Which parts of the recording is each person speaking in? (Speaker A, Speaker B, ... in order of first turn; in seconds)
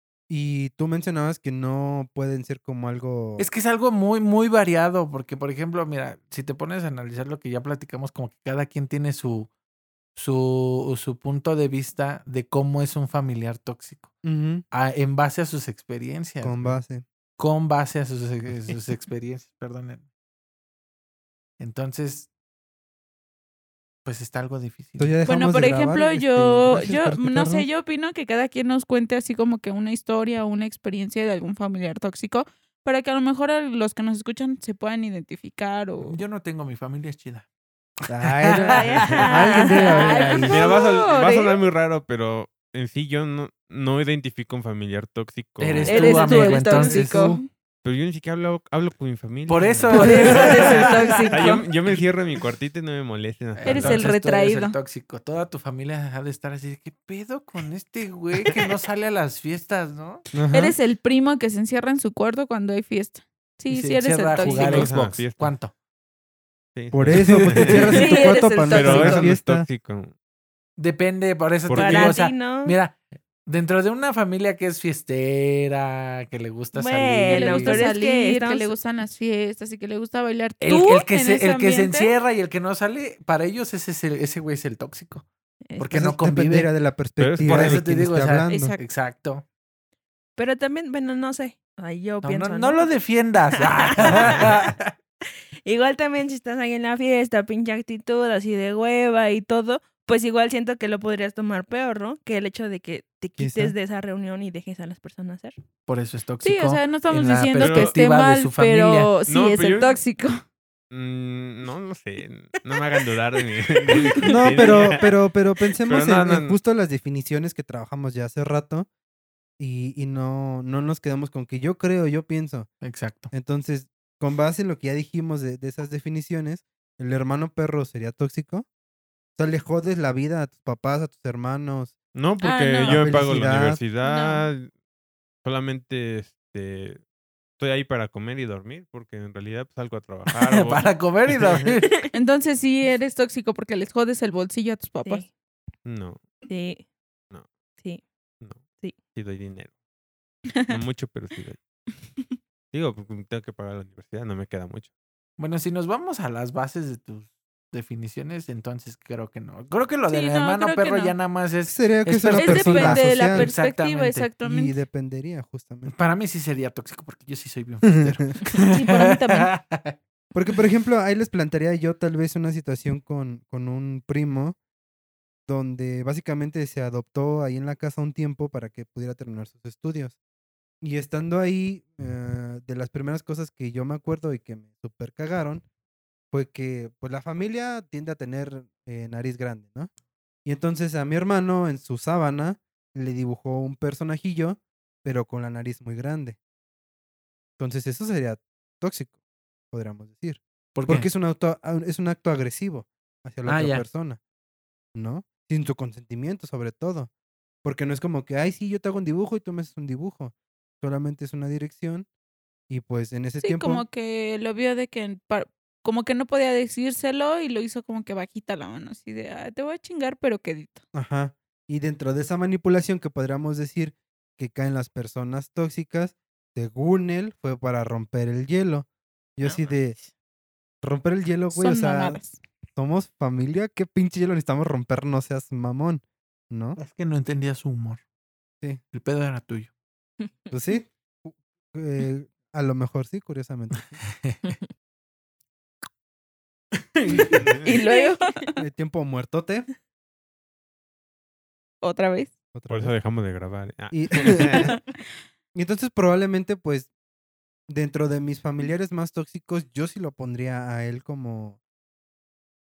Speaker A: 0.3-3.5, 14.2-14.6, 16.4-17.1, 25.0-27.7, 38.1-40.6, 46.7-47.4, 60.3-60.8, 66.9-69.7, 85.9-88.8, 103.4-103.8, 114.3-118.9, 119.6-122.7, 123.3-128.7, 129.4-131.9, 132.8-133.8, 161.7-163.5, 164.4-165.9, 167.8-168.2, 170.3-174.6, 175.5-180.2, 180.8-185.6, 186.3-189.9, 190.4-196.4, 197.6-199.1, 199.7-204.2, 204.9-207.1, 207.6-212.1, 212.7-213.8, 220.9-229.9, 230.8-232.2, 232.8-236.8, 240.5-244.0, 248.6-249.7, 252.5-252.9, 253.9-254.8, 255.6-256.9, 257.7-261.6
Speaker B: 3.4-9.5, 10.1-14.2, 14.7-16.8, 17.4-20.1, 21.6-22.3, 24.1-25.2, 36.0-37.5, 38.0-39.6, 45.6-47.2, 49.5-52.0, 53.6-60.3, 63.7-65.7, 67.1-67.9, 70.8-77.9, 80.6-85.3, 85.8-86.7, 87.4-89.4, 92.2-94.9, 105.9-109.1, 122.8-123.3, 140.3-142.0, 155.4-164.3, 165.9-170.0, 200.8-201.1, 203.4-203.8, 236.8-238.0, 238.9-239.7, 244.0-244.5, 246.9-247.5
Speaker C: 25.2-36.2, 39.7-41.6, 45.9-47.5, 49.9-51.5, 53.7-54.8, 60.5-64.9, 67.9-69.2, 77.3-82.1, 88.5-88.8, 106.4-110.4, 113.9-114.2, 132.4-133.0, 134.0-134.4, 142.1-145.2, 160.1-161.2, 162.3-164.8, 168.7-169.5, 213.4-220.8, 231.5-232.4, 247.6-248.3, 251.8-252.3
Speaker D: 38.7-40.6, 45.9-46.4, 71.7-72.8, 76.7-78.7, 85.7-86.0, 90.4-92.9, 93.6-94.5, 95.6-105.6, 146.5-146.8, 229.5-230.0, 247.7-248.1
Speaker E: 40.4-46.2, 47.8-54.1, 64.5-65.5, 66.8-68.2, 68.7-70.1, 71.7-72.2, 87.2-87.8, 107.6-108.0, 109.3-110.0, 110.9-115.1, 115.8-116.6, 132.1-134.7, 135.4-137.0, 137.6-141.6, 145.8-146.2, 149.1-149.7, 150.7-151.6, 152.7-154.9, 252.7-254.7